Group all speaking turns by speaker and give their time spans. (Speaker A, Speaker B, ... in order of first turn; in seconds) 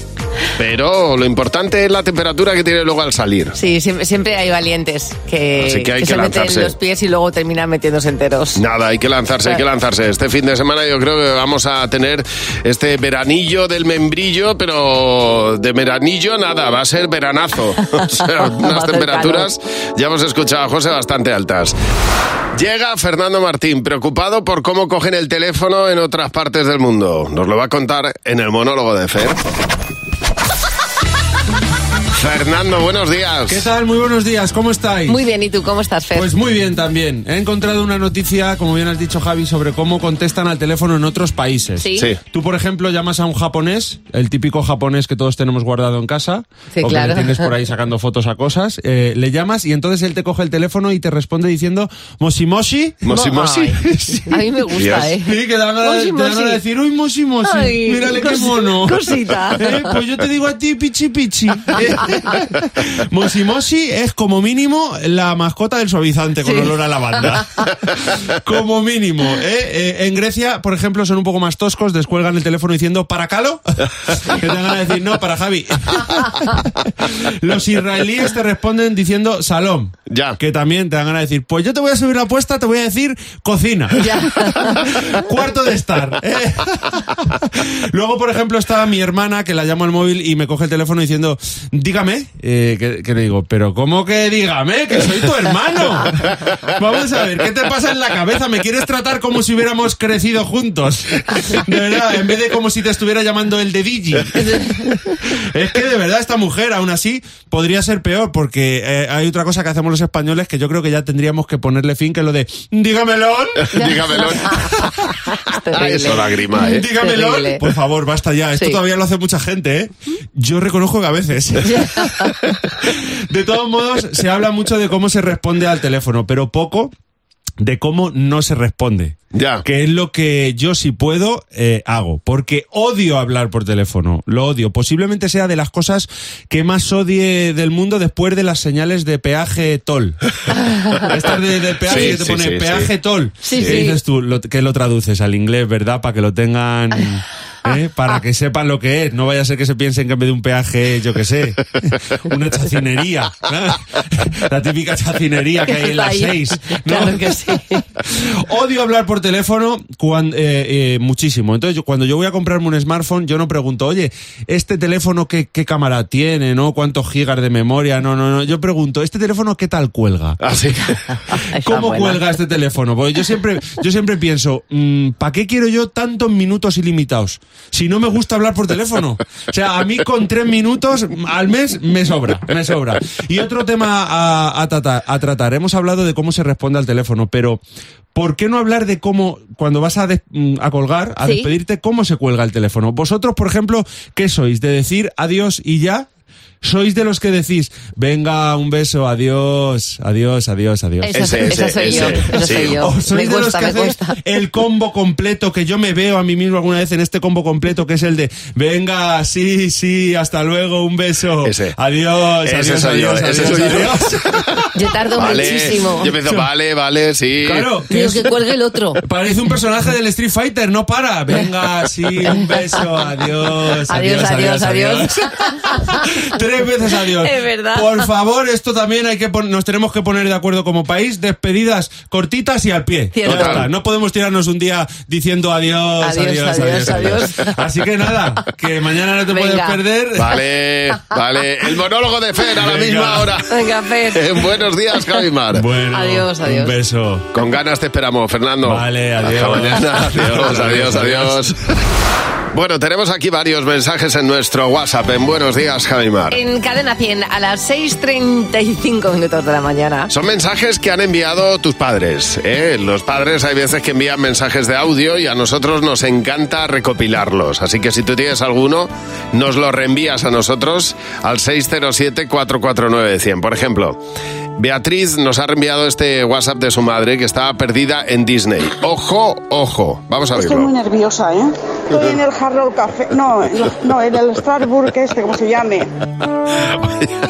Speaker A: 0.6-3.5, 5.6-6.7, 8.6-21.8, 22.6-29.4, 32.1-33.6, 53.0-53.6, 54.8-55.0, 80.1-80.3, 113.7-114.5, 115.8-116.8, 129.3-129.6, 141.9-142.9, 170.4-170.8, 201.1-202.8, 211.4-211.7, 212.4-214.1, 215.2-217.7, 233.3-233.7, 240.2-243.5, 244.1-245.6, 247.3-251.6, 252.5-256.4, 260.1-274.0, 274.6-280.7, 286.8-287.1
Speaker B: 3.5-8.6, 18.2-19.5, 35.1-36.3, 41.8-42.1, 46.8-47.5, 53.1-56.6, 57.5-59.9, 66.4-66.7, 84.0-84.8, 104.4-104.9, 113.7-114.8, 115.3-117.7, 121.6-122.2, 140.6-141.1, 141.9-142.2, 143.4-143.9, 155.7-157.8, 171.1-172.2, 191.2-191.5, 201.0-204.2, 214.8-216.1, 217.9-219.0, 223.9-226.1, 227.2-228.1, 233.1-233.6, 236.0-237.6, 239.3-239.8, 243.5-245.0, 245.9-246.8, 256.3-260.1
Speaker C: 33.5-35.2, 36.1-53.1, 53.8-76.5, 77.0-113.7, 116.1-122.3, 123.3-126.9, 127.6-140.2, 141.1-157.5, 158.1-170.4, 171.6-187.6, 188.1-196.1, 196.6-214.4, 215.2-215.6, 216.1-216.5, 217.4-218.3, 219.0-240.3, 242.6-243.3, 245.5-247.3, 248.6-251.4
Speaker D: 280.3-285.9